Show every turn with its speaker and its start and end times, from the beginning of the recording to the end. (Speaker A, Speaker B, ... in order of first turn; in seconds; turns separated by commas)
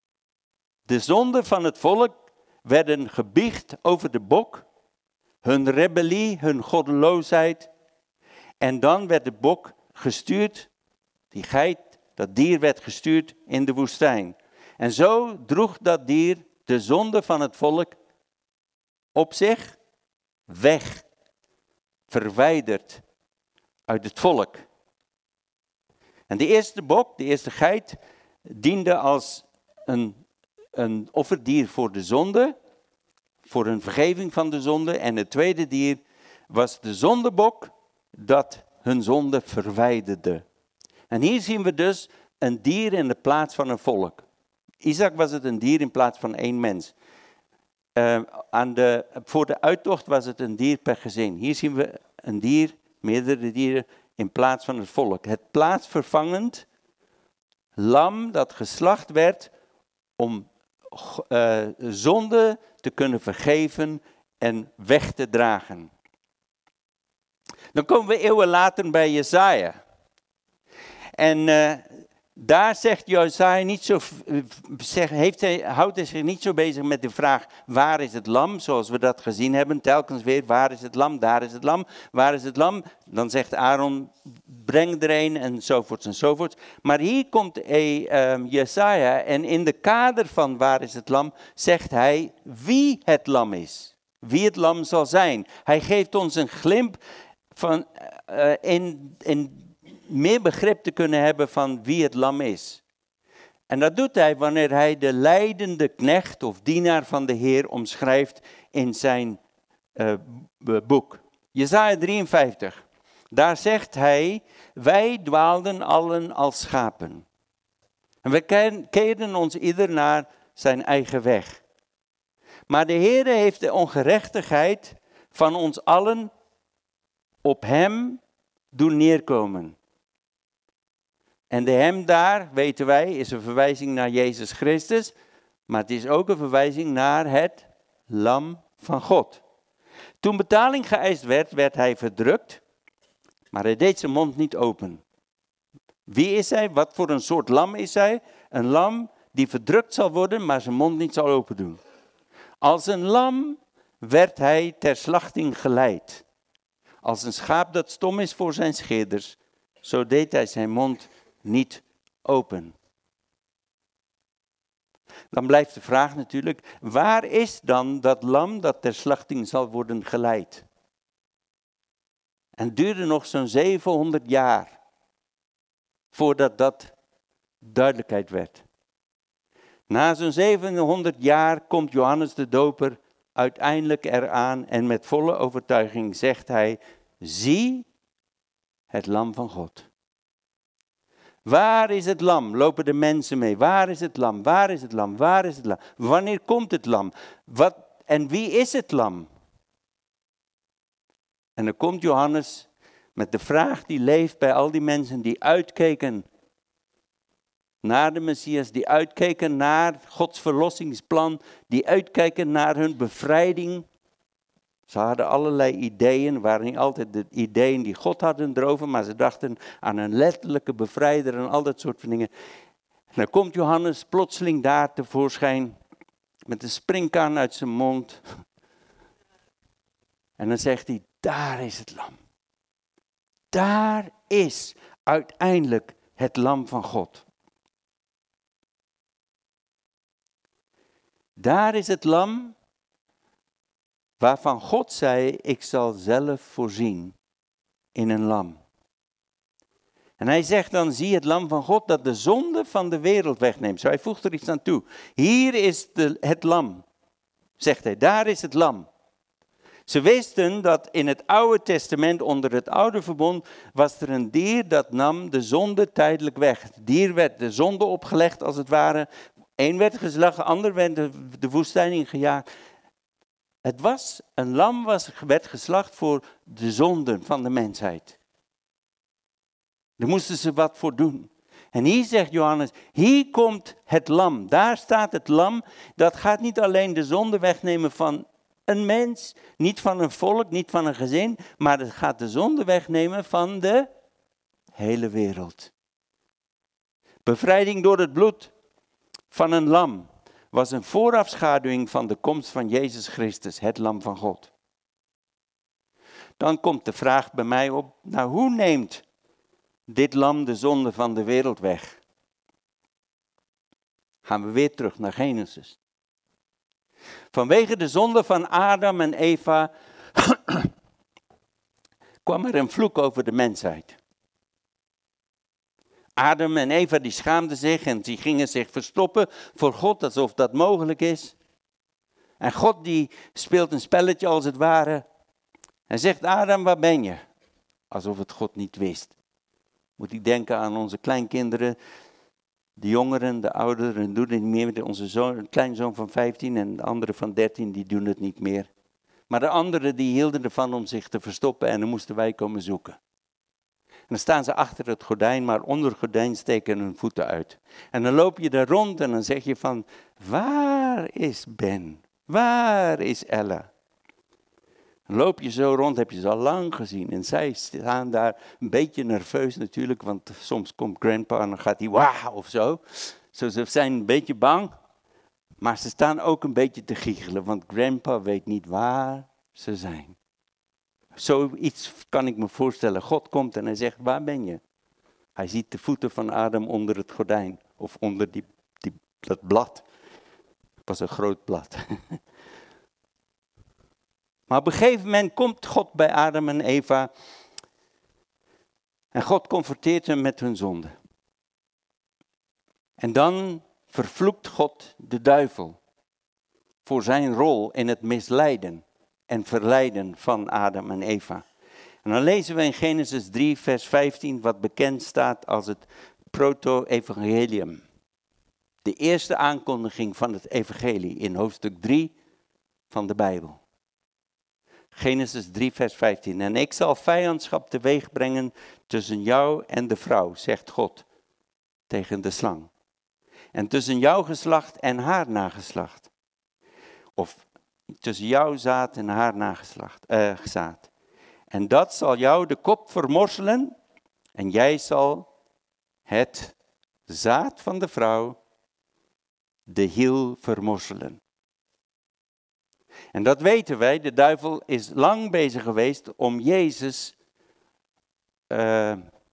Speaker A: 0.9-4.7, Speaker A: 5.4-7.7, Speaker A: 8.6-10.7, Speaker A: 11.3-17.9, Speaker A: 19.1-19.8, Speaker A: 20.5-21.0, Speaker A: 22.1-23.0, Speaker A: 23.9-24.6, Speaker A: 26.3-30.2, Speaker A: 30.8-32.5, Speaker A: 33.4-40.4, Speaker A: 41.1-44.2, Speaker A: 44.8-46.9, Speaker A: 48.0-56.6, Speaker A: 57.8-59.5, Speaker A: 60.2-65.9, Speaker A: 67.7-69.8, Speaker A: 71.2-97.0, Speaker A: 97.5-102.8, Speaker A: 103.7-109.4, Speaker A: 110.0-117.2, Speaker A: 118.2-121.6, Speaker A: 122.7-126.3, Speaker A: 127.4-128.2, Speaker A: 128.7-129.8, Speaker A: 131.5-135.1, Speaker A: 135.7-139.4, Speaker A: 140.2-142.6, Speaker A: 143.5-145.0, Speaker A: 146.1-151.8, Speaker A: 152.6-156.2, Speaker A: 157.0-162.7, Speaker A: 165.3-170.6, Speaker A: 172.6-174.8, Speaker A: 176.1-176.9, Speaker A: 177.6-178.6, Speaker A: 179.9-187.8, Speaker A: 188.9-189.8, Speaker A: 191.4-199.3, Speaker A: 201.6-206.2, Speaker A: 207.8-213.8, Speaker A: 214.9-222.3, Speaker A: 223.1-225.8, Speaker A: 226.5-228.2, Speaker A: 230.4-232.2, Speaker A: 233.5-237.2, Speaker A: 241.4-242.5, Speaker A: 244.2-247.1, Speaker A: 247.9-248.6, Speaker A: 250.2-256.8, Speaker A: 257.6-258.9, Speaker A: 259.9-272.4, Speaker A: 273.6-278.1, Speaker A: 280.0-293.9, Speaker A: 294.7-295.7, Speaker A: 297.2-298.5, Speaker A: 299.3-304.5, Speaker A: 306.4-309.0, Speaker A: 309.9-312.0, Speaker A: 314.2-315.8, Speaker A: 317.3-320.7, Speaker A: 322.2-324.0, Speaker A: 326.2-331.3, Speaker A: 332.4-335.0, Speaker A: 335.9-337.2, Speaker A: 337.9-339.1, Speaker A: 340.0-341.8, Speaker A: 342.8-348.7, Speaker A: 349.3-353.0, Speaker A: 354.1-363.7, Speaker A: 365.1-372.8, Speaker A: 373.3-374.7, Speaker A: 375.6-380.1, Speaker A: 381.1-384.6, Speaker A: 385.4-389.8, Speaker A: 390.9-392.2, Speaker A: 394.5-397.1, Speaker A: 399.1-400.9, Speaker A: 403.0-405.8, Speaker A: 406.8-411.4, Speaker A: 412.0-417.8, Speaker A: 418.8-422.1, Speaker A: 422.9-423.6, Speaker A: 424.9-431.0, Speaker A: 431.9-432.7, Speaker A: 433.5-436.1, Speaker A: 438.0-440.9, Speaker A: 441.5-443.7, Speaker A: 444.4-445.3, Speaker A: 446.1-446.5, Speaker A: 447.1-448.4, Speaker A: 449.7-451.2, Speaker A: 453.1-457.1, Speaker A: 458.5-459.0